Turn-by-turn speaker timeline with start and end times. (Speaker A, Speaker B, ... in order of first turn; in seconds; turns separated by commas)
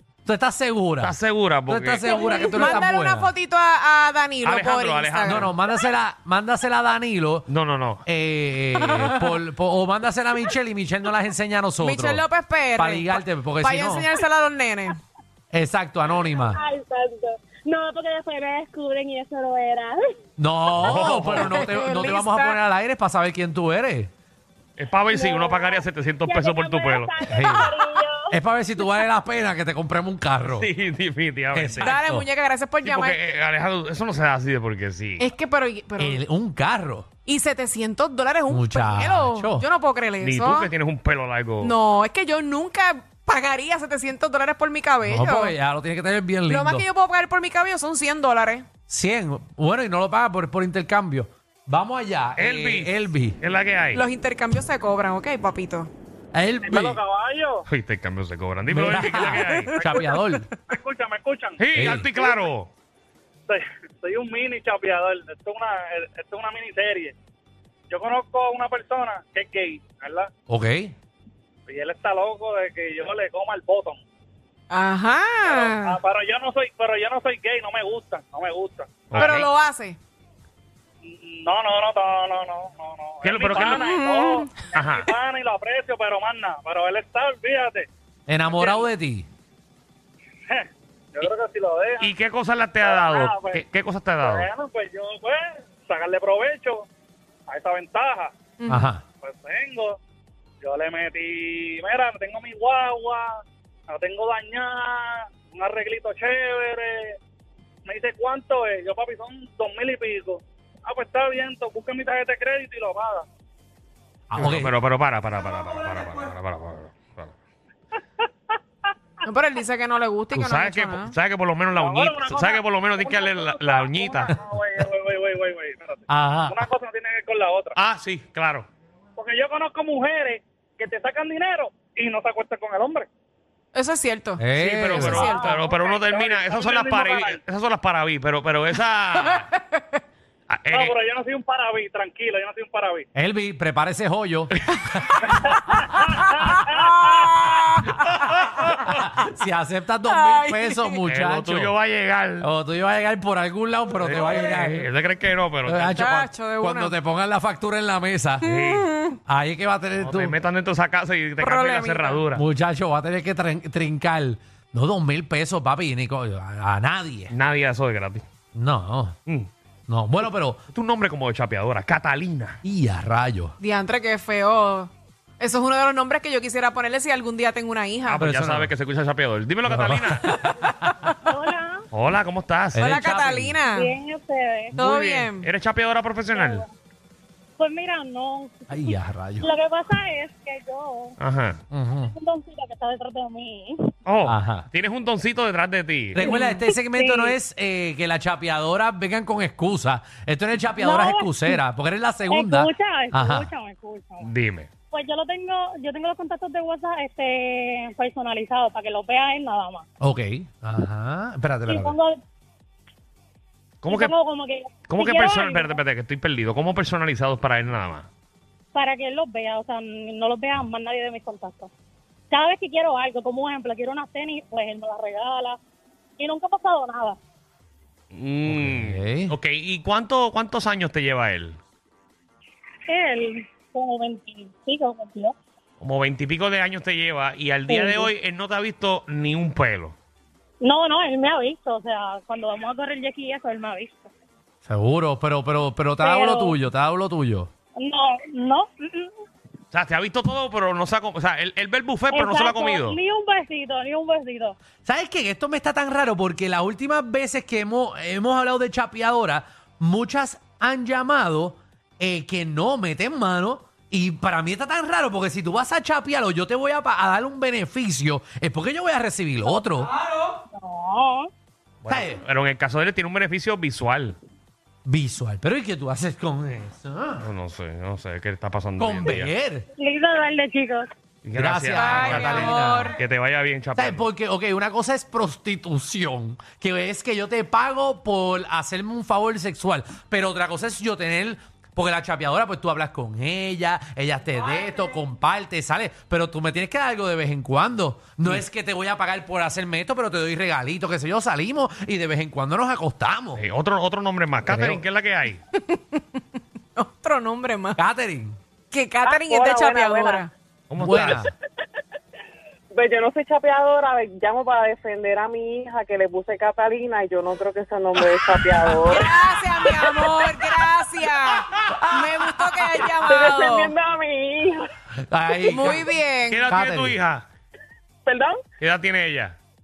Speaker A: 0.2-3.3, Speaker B: 1.0-2.4, Speaker C: 2.0-5.5, Speaker B: 4.4-5.5, Speaker A: 5.2-7.5, Speaker B: 7.5-8.0, Speaker A: 8.1-14.1, Speaker C: 8.8-9.4, Speaker C: 11.8-15.0, Speaker A: 15.5-16.6, Speaker D: 16.2-20.1, Speaker A: 20.4-24.1, Speaker B: 20.8-21.6, Speaker C: 21.3-22.6, Speaker B: 24.8-27.2, Speaker D: 25.1-28.8, Speaker A: 27.2-27.7, Speaker A: 28.3-30.7, Speaker B: 30.5-31.9, Speaker A: 31.5-32.3, Speaker C: 31.8-33.2, Speaker B: 32.8-35.3, Speaker C: 35.2-36.2, Speaker A: 36.0-37.1, Speaker C: 37.3-40.7, Speaker A: 38.5-39.7, Speaker B: 40.2-41.8, Speaker C: 41.6-45.5, Speaker A: 45.1-46.9, Speaker C: 46.5-48.7, Speaker A: 48.9-53.4, Speaker B: 52.4-54.0, Speaker C: 53.9-55.9, Speaker A: 56.3-57.0, Speaker E: 56.7-57.6, Speaker B: 57.7-59.8, Speaker A: 58.7-60.5, Speaker C: 59.6-60.4, Speaker E: 60.7-61.6, Speaker B: 61.6-62.7, Speaker A: 61.7-62.1, Speaker E: 63.5-67.2, Speaker E: 67.9-70.3, Speaker A: 70.5-70.9, Speaker E: 71.7-74.0, Speaker C: 74.7-76.0, Speaker E: 75.4-79.3, Speaker B: 79.1-79.5, Speaker C: 79.2-80.0, Speaker E: 81.2-87.9, Speaker B: 83.2-83.9, Speaker C: 83.6-84.6, Speaker B: 84.8-85.1, Speaker A: 88.3-89.3, Speaker E: 88.5-88.9, Speaker E: 90.5-92.1, Speaker B: 92.0-94.5, Speaker E: 92.8-93.7, Speaker E: 94.2-96.8, Speaker E: 97.5-98.3, Speaker C: 98.6-98.9, Speaker A: 98.7-99.0, Speaker E: 99.2-100.0, Speaker E: 100.6-103.3, Speaker E: 103.9-107.1, Speaker E: 107.9-113.2, Speaker A: 114.3-114.8, Speaker B: 114.4-117.3, Speaker C: 119.2-121.1, Speaker B: 120.3-124.4, Speaker E: 121.7-127.7, Speaker A: 126.1-126.7, Speaker B: 127.8-128.7, Speaker E: 129.2-133.1, Speaker C: 133.8-134.4, Speaker A: 134.4-135.3, Speaker B: 134.6-139.5, Speaker C: 135.0-135.6, Speaker E: 135.2-137.4, Speaker C: 139.2-140.0, Speaker B: 140.5-141.0, Speaker E: 140.7-143.1, Speaker A: 143.2-145.8, Speaker E: 146.3-147.2, Speaker C: 147.1-147.9, Speaker B: 148.2-149.0, Speaker A: 149.0-151.8, Speaker C: 150.1-151.0, Speaker B: 151.1-152.5, Speaker A: 152.4-154.9, Speaker B: 154.0-156.1, Speaker A: 155.7-158.5, Speaker C: 156.0-156.9, Speaker B: 158.4-158.9, Speaker C: 158.4-159.2, Speaker A: 159.3-160.4, Speaker B: 160.0-162.4, Speaker C: 161.4-162.2, Speaker A: 162.3-167.3, Speaker B: 167.3-168.2, Speaker A: 168.6-169.2, Speaker A: 169.9-170.6, Speaker B: 170.7-172.6, Speaker A: 172.6-173.5, Speaker C: 173.6-178.2, Speaker B: 178.1-180.3, Speaker A: 178.2-178.7, Speaker A: 179.7-181.1, Speaker F: 181.3-181.9, Speaker B: 181.9-182.9, Speaker A: 182.8-183.7, Speaker C: 182.8-183.9, Speaker F: 183.8-184.8, Speaker A: 184.8-185.0, Speaker C: 184.8-185.5, Speaker B: 184.8-186.6, Speaker F: 186.3-186.7, Speaker F: 187.6-191.2, Speaker A: 188.7-189.5, Speaker B: 191.2-191.6, Speaker A: 191.7-192.1, Speaker F: 192.1-193.9, Speaker B: 194.1-196.2, Speaker A: 194.2-194.7, Speaker A: 196.2-203.5, Speaker F: 196.2-197.3, Speaker F: 200.8-201.6, Speaker F: 202.3-204.3, Speaker B: 204.2-204.7, Speaker F: 204.9-209.8, Speaker A: 210.0-212.0, Speaker F: 211.7-212.2, Speaker B: 213.8-214.1, Speaker F: 213.9-215.8, Speaker B: 214.9-218.1, Speaker F: 218.7-221.7, Speaker F: 222.3-225.6, Speaker F: 226.2-227.2, Speaker B: 228.1-231.6, Speaker A: 228.5-229.4, Speaker F: 232.9-235.3, Speaker B: 235.8-240.0, Speaker F: 237.7-238.1, Speaker F: 240.6-244.1, Speaker A: 244.7-247.5, Speaker F: 246.0-246.6, Speaker F: 247.8-249.1, Speaker B: 249.7-253.0, Speaker F: 252.1-254.6, Speaker A: 254.8-269.9, Speaker F: 270.5-271.3, Speaker B: 271.8-274.2, Speaker A: 271.9-272.2, Speaker A: 274.9-277.2, Speaker B: 277.2-279.3, Speaker A: 278.8-279.7, Speaker F: 279.8-280.9, Speaker B: 281.2-284.1, Speaker A: 281.4-283.0, Speaker C: 281.7-283.0, Speaker A: 283.8-303.4, Speaker B: 303.4-305.4, Speaker A: 304.5-304.8, Speaker C: 305.5-306.2, Speaker C: 306.8-307.8, Speaker A: 307.8-308.4, Speaker C: 308.7-310.3, Speaker G: 309.0-310.3, Speaker B: 310.7-311.3, Speaker A: 310.8-311.3, Speaker G: 312.7-320.0, Speaker C: 318.8-323.7, Speaker G: 323.1-324.7, Speaker A: 325.0-325.9, Speaker C: 325.5-326.5, Speaker B: 326.3-327.2, Speaker A: 326.5-327.0, Speaker G: 328.1-328.4, Speaker B: 328.6-329.4